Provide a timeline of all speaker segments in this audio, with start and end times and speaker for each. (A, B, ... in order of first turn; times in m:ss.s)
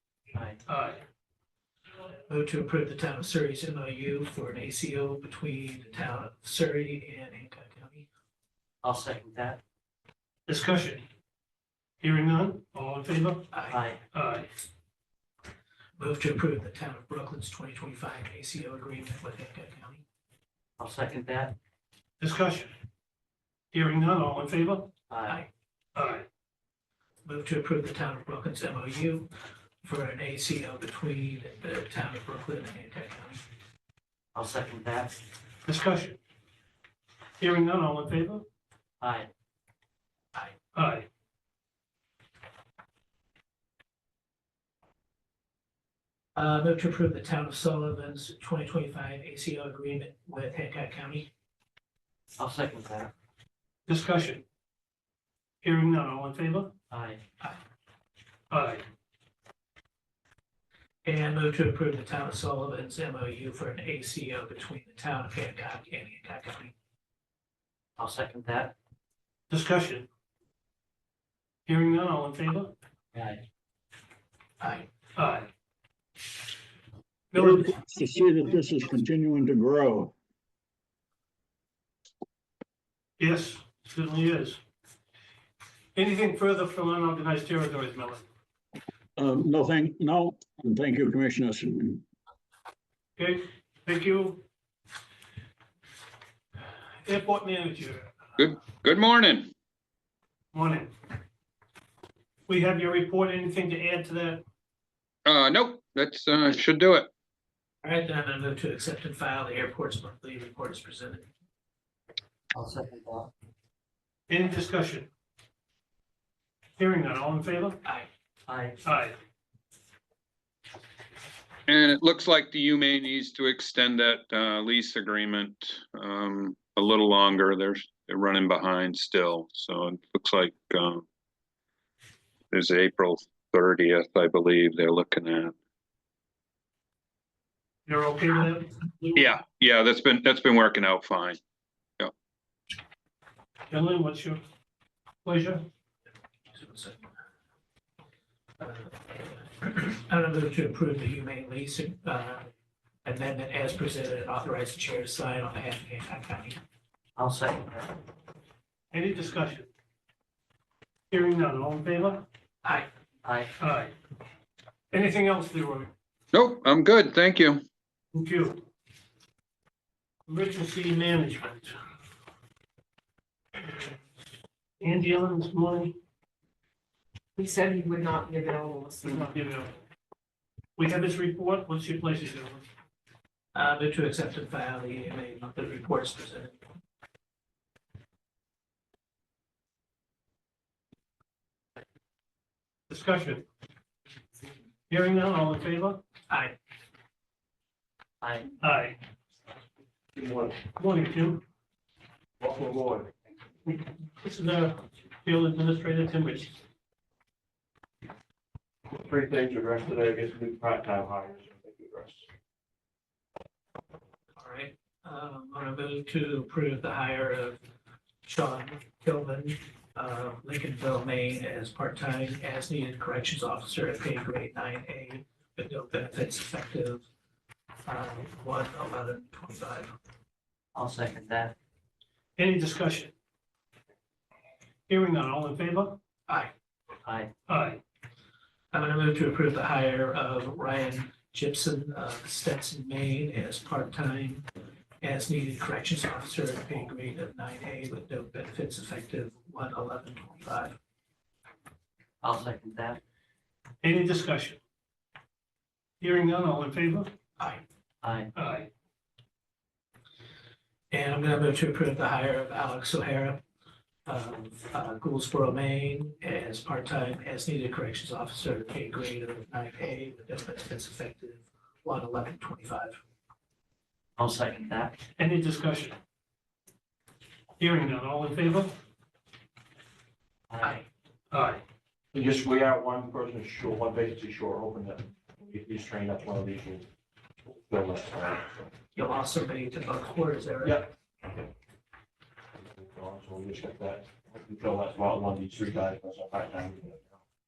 0:00.3-0:00.6 A
0:00.7-0:01.0 B
0:02.3-0:08.0 C
0:08.8-0:09.6 A
0:10.5-0:11.0 B
0:12.0-0:13.5 B
0:13.5-0:13.8 C
0:13.7-0:14.0 A
0:14.1-0:14.5 B
0:16.0-0:20.0 C
0:20.8-0:21.5 A
0:22.2-0:22.7 B
0:23.7-0:24.9 B
0:25.1-0:25.4 A
0:25.9-0:26.2 B
0:27.2-0:29.3 C
0:29.8-0:33.4 C
0:34.3-0:35.2 A
0:35.6-0:36.2 B
0:37.4-0:38.4 B
0:39.0-0:39.3 A
0:40.7-0:41.1 B
0:46.3-0:51.3 C
0:52.4-0:53.1 A
0:53.9-0:54.4 B
0:55.6-0:56.7 B
0:56.9-0:57.2 A
0:58.5-0:58.8 B
1:01.0-1:06.7 C
1:08.0-1:08.7 A
1:09.5-1:10.1 B
1:11.7-1:12.7 B
1:13.1-1:13.4 A
1:14.6-1:14.9 C
1:15.2-1:15.5 B
1:17.3-1:17.7 B
1:17.4-1:20.1 D
1:23.2-1:24.6 B
1:25.9-1:28.2 B
1:29.2-1:32.0 D
1:33.2-1:34.4 B
1:37.0-1:38.1 B
1:38.4-1:39.5 E
1:40.5-1:40.9 B
1:42.5-1:44.4 B
1:45.2-1:47.1 E
1:47.8-1:51.3 C
1:52.5-1:53.3 A
1:54.3-1:55.1 B
1:56.8-1:57.8 B
1:58.4-1:58.8 A
1:58.8-1:59.2 B
2:01.7-2:11.0 E
2:12.5-2:15.5 E
2:17.9-2:19.3 B
2:19.2-2:21.4 E
2:23.7-2:24.4 B
2:25.2-2:25.6 B
2:26.5-2:27.0 C
2:28.6-2:32.5 C
2:33.0-2:36.6 C
2:37.2-2:38.0 A
2:38.9-2:39.7 B
2:41.1-2:42.2 B
2:43.2-2:43.5 A
2:43.6-2:43.9 B
2:44.9-2:45.9 B
2:46.3-2:47.6 E
2:48.1-2:48.6 B
2:50.3-2:51.8 B
2:54.8-2:55.9 B
2:57.4-2:59.3 F
2:59.0-2:59.8 B
3:00.8-3:02.6 B
3:03.5-3:06.6 C
3:12.9-3:13.4 B
3:14.9-3:16.0 B
3:16.3-3:16.5 C
3:18.2-3:18.5 A
3:18.6-3:19.0 B
3:20.1-3:20.6 G
3:20.7-3:21.4 B
3:22.4-3:23.1 G
3:24.2-3:26.5 B
3:28.9-3:32.2 G
3:34.4-3:37.6 C
3:38.2-3:47.0 C
3:47.8-3:49.9 C
3:50.7-3:51.5 A
3:52.4-3:53.1 B
3:54.9-3:56.0 B
3:57.0-3:57.3 A
3:57.5-3:57.8 B
3:58.7-4:04.4 C
4:05.0-4:10.7 C
4:12.2-4:13.0 A
4:13.8-4:14.6 B
4:16.0-4:17.1 B
4:18.0-4:18.3 A
4:18.3-4:18.7 B
4:20.9-4:23.4 C
4:24.0-4:33.0 C
4:34.2-4:35.0 A
4:35.2-4:36.0 B
4:37.6-4:38.7 B
4:40.5-4:40.8 A
4:41.3-4:41.6 B
4:42.1-4:46.8 G
4:47.5-4:48.6 G
4:48.9-4:50.9 C
4:50.6-4:51.4 G
4:52.6-4:57.2 G